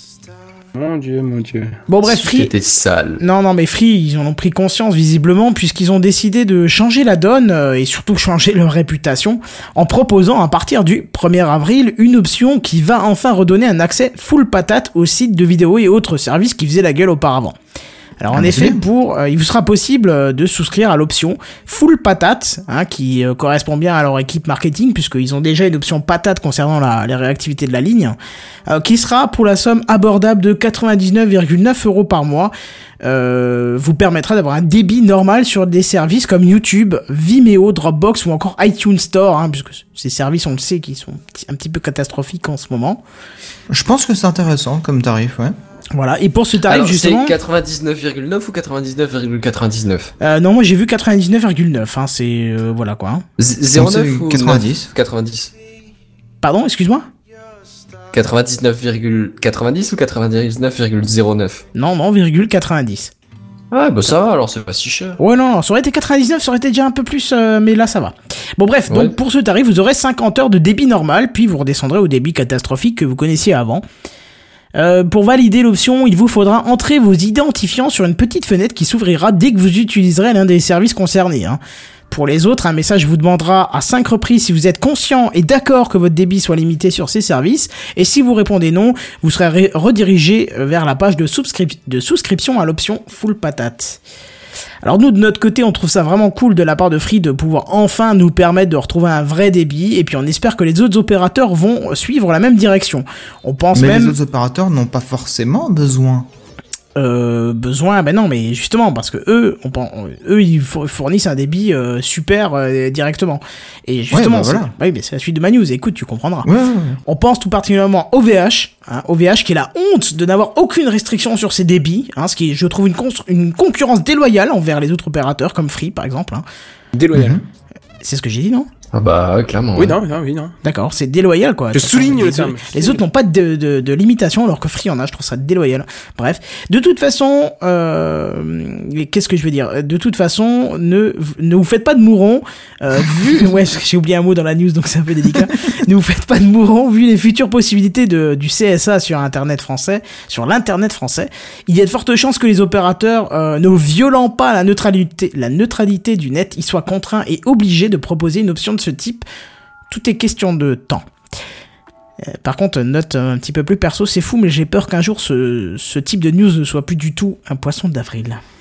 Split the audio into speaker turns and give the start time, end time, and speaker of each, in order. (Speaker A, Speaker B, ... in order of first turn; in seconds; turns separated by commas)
Speaker A: 0.7-1.8, Speaker B: 1.9-2.5, Speaker C: 2.0-3.2, Speaker B: 3.2-17.6, Speaker B: 18.2-28.1, Speaker D: 18.3-18.8, Speaker B: 28.7-43.0, Speaker D: 43.7-45.5, Speaker B: 45.9-47.4, Speaker C: 46.7-50.1, Speaker B: 50.2-53.2, Speaker C: 53.4-55.5, Speaker D: 53.7-54.9, Speaker B: 56.4-57.0, Speaker C: 58.1-61.6, Speaker B: 61.7-63.1, Speaker C: 63.7-65.2, Speaker B: 65.2-73.8, Speaker B: 74.8-94.0, Speaker B: 94.8-104.2, Speaker D: 103.7-106.3, Speaker B: 107.0-116.5, Speaker D: 114.1-114.7, Speaker D: 116.4-117.0, Speaker B: 117.0-126.4, Speaker A: 126.9-127.4, Speaker D: 127.1-127.4, Speaker B: 128.0-128.7, Speaker C: 128.9-130.0, Speaker A: 129.8-130.5, Speaker B: 130.6-159.2, Speaker A: 131.7-133.0, Speaker B: 159.9-161.0, Speaker B: 162.3-168.4